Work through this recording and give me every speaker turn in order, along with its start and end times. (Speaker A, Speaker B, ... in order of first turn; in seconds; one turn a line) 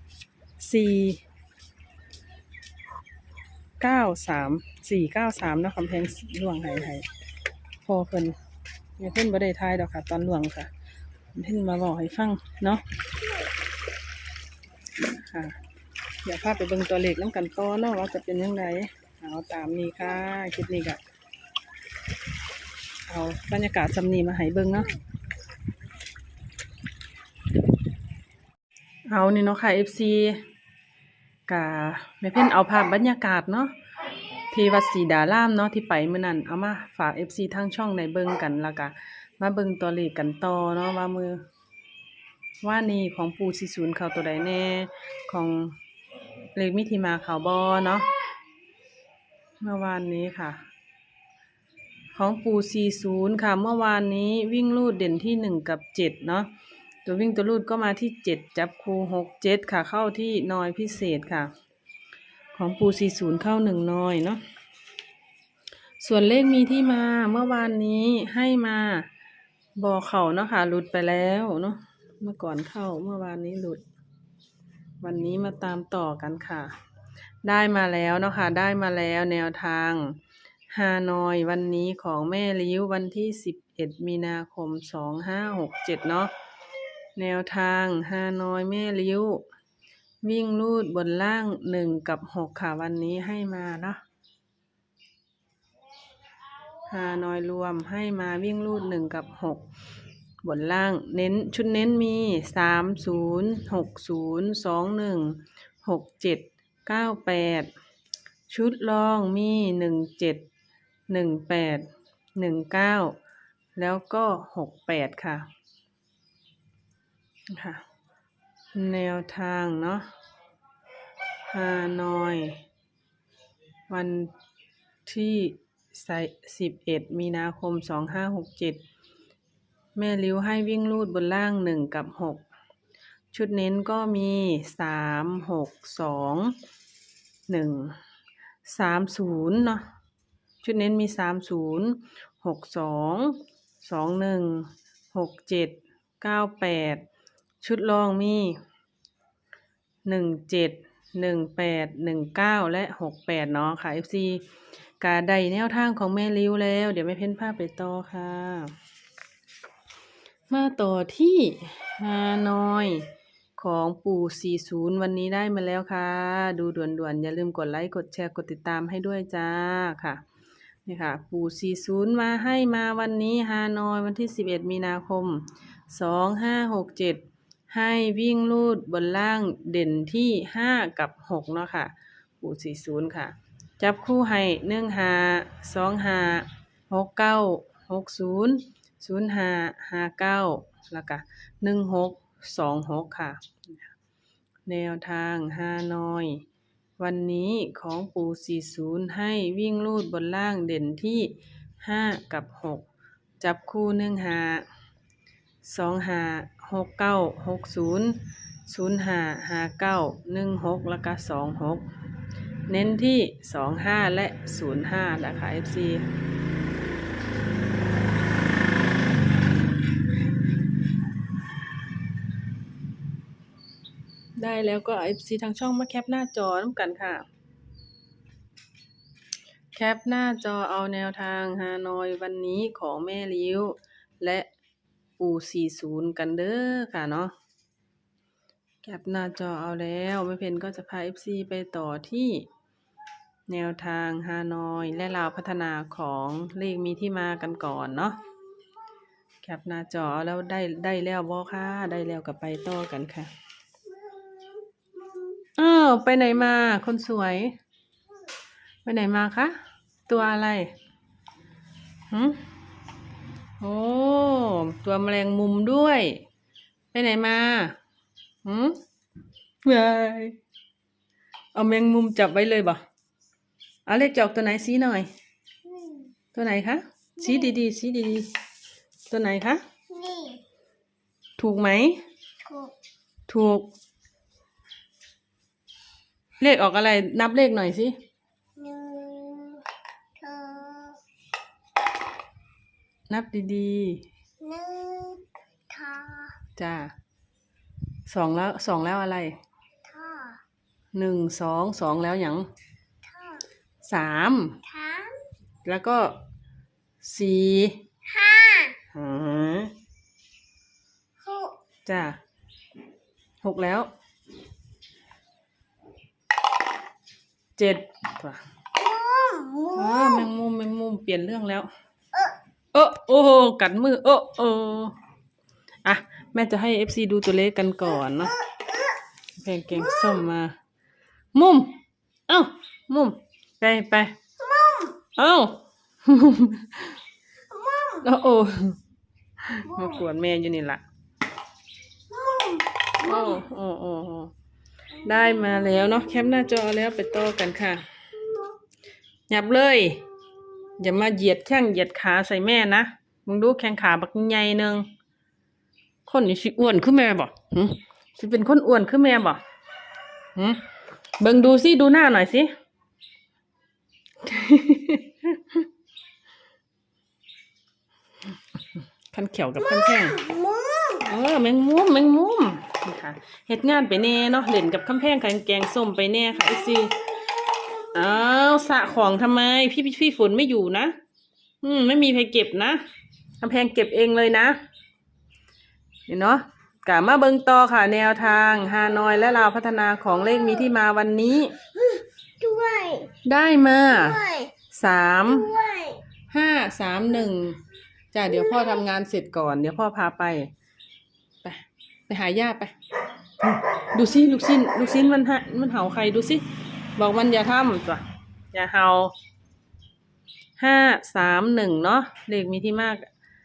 Speaker A: 0.6-1.2
Speaker A: 3.8-7.1
Speaker A: 7.8-8.4
Speaker A: 9.0-10.7
Speaker A: 11.3-12.8
Speaker A: 15.1-15.6
Speaker A: 16.2-21.0
Speaker A: 23.1-25.0
Speaker A: 29.1-30.4
Speaker A: 31.5-33.8
Speaker A: 34.5-41.4
Speaker A: 42.6-45.8
Speaker A: 46.5-48.1
Speaker A: 49.6-50.6
Speaker A: 52.1-56.5
Speaker A: 57.0-61.5
Speaker A: 62.5-64.4
Speaker A: 66.0-69.1
Speaker A: 69.8-73.8
Speaker A: 75.0-76.8
Speaker A: 77.4-80.2
Speaker A: 80.7-86.3
Speaker A: 87.2-89.5
Speaker A: 90.2-94.0
Speaker A: 96.9-99.7
Speaker A: 100.4-107.7
Speaker A: 108.5-110.5
Speaker A: 111.1-113.2
Speaker A: 113.8-115.5
Speaker A: 117.5-117.8
Speaker A: 118.7-120.1
Speaker A: 121.5-122.6
Speaker A: 123.9-124.3
Speaker A: 125.0-128.8
Speaker A: 130.0-132.4
Speaker A: 133.3-136.6
Speaker A: 137.5-138.0
Speaker A: 138.7-139.9
Speaker A: 140.6-147.0
Speaker A: 147.6-148.6
Speaker A: 150.1-154.4
Speaker A: 155.0-158.8
Speaker A: 160.5-170.2
Speaker A: 170.9-193.9
Speaker A: 194.7-196.4
Speaker A: 197.0-202.9
Speaker A: 203.4-204.7
Speaker A: 205.6-211.9
Speaker A: 212.7-216.1
Speaker A: 224.4-227.3
Speaker A: 229.7-234.5
Speaker A: 235.2-237.3
Speaker A: 238.8-242.5
Speaker A: 243.5-248.2
Speaker A: 249.4-253.3
Speaker A: 255.6-257.6
Speaker A: 258.9-259.6
Speaker A: 260.1-260.7
Speaker A: 262.1-262.4
Speaker A: 263.6-266.2
Speaker A: 266.9-267.8
Speaker A: 268.4-268.8
Speaker A: 269.6-270.4
Speaker A: 271.5-272.8
Speaker A: 273.9-275.1
Speaker B: 275.8-276.1
Speaker A: 276.3-278.3
Speaker A: 279.1-279.6
Speaker B: 279.9-280.4
Speaker A: 281.4-282.0
Speaker A: 283.3-283.7
Speaker A: 286.4-288.0
Speaker B: 288.6-289.7
Speaker B: 290.2-291.0
Speaker A: 293.1-294.1
Speaker B: 294.4-296.4
Speaker A: 296.6-296.9
Speaker A: 298.1-299.4
Speaker B: 299.9-300.4
Speaker A: 300.9-302.5
Speaker B: 303.1-303.4
Speaker A: 303.8-304.6
Speaker B: 304.7-305.2
Speaker A: 305.6-306.2
Speaker A: 307.0-307.8
Speaker B: 308.1-308.8
Speaker A: 308.9-309.7
Speaker B: 311.2-311.5
Speaker A: 311.9-312.2
Speaker A: 313.4-313.9
Speaker A: 317.6-318.4
Speaker B: 318.8-319.8
Speaker A: 319.7-321.7
Speaker A: 322.7-324.9
Speaker A: 325.9-328.4
Speaker A: 329.4-330.6
Speaker A: 331.3-334.2
Speaker B: 334.5-335.0
Speaker A: 335.1-337.0
Speaker B: 337.5-338.0
Speaker A: 338.0-338.8
Speaker A: 339.4-340.8
Speaker B: 342.1-342.7
Speaker A: 343.0-344.3
Speaker A: 345.0-347.9
Speaker A: 349.3-350.1
Speaker A: 350.8-354.9
Speaker A: 356.1-359.4
Speaker A: 360.4-360.6
Speaker A: 361.2-362.5
Speaker A: 364.2-365.6
Speaker A: 369.1-370.2
Speaker B: 370.2-371.0
Speaker A: 371.0-377.0
Speaker A: 377.9-381.0
Speaker A: 381.6-382.8
Speaker A: 383.4-384.6
Speaker A: 386.1-391.6
Speaker B: 392.4-393.1
Speaker A: 393.2-395.6
Speaker B: 395.5-396.0
Speaker A: 396.3-400.5
Speaker A: 401.4-402.7
Speaker A: 403.4-406.4
Speaker A: 407.0-409.1
Speaker A: 410.6-413.1